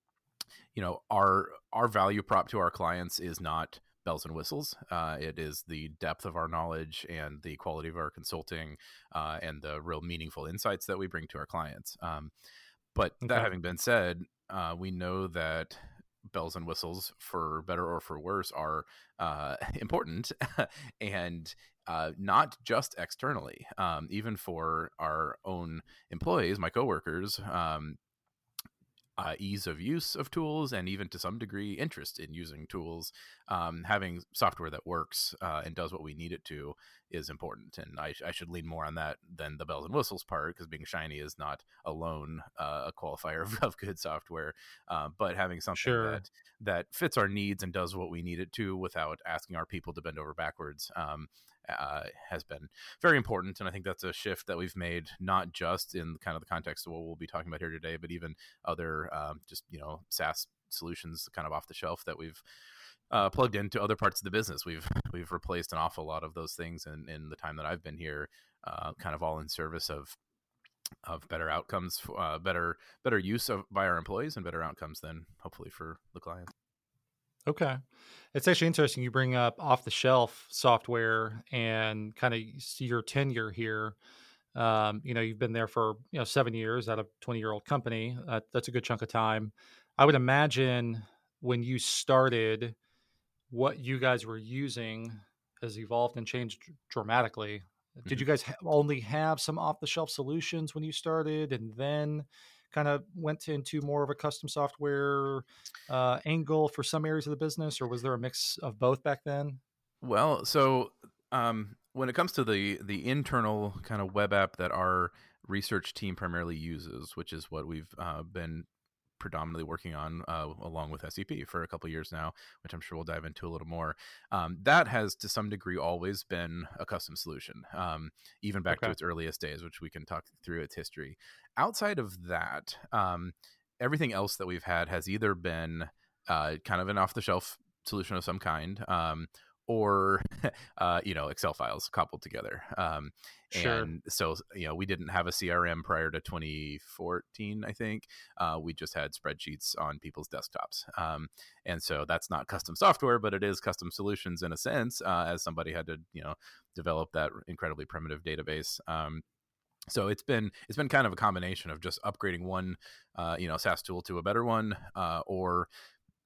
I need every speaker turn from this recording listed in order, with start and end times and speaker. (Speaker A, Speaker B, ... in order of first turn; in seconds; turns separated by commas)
Speaker A: 0.7-12.3, Speaker A: 12.9-28.0, Speaker B: 13.2-13.5, Speaker A: 29.2-62.4, Speaker B: 45.8-46.2, Speaker A: 63.1-70.2, Speaker A: 71.0-76.5, Speaker B: 77.5-77.8, Speaker B: 78.3-84.0, Speaker B: 84.5-92.8, Speaker B: 93.5-109.6, Speaker A: 110.0-118.7, Speaker A: 119.2-159.2, Speaker B: 143.5-143.9, Speaker A: 159.9-165.7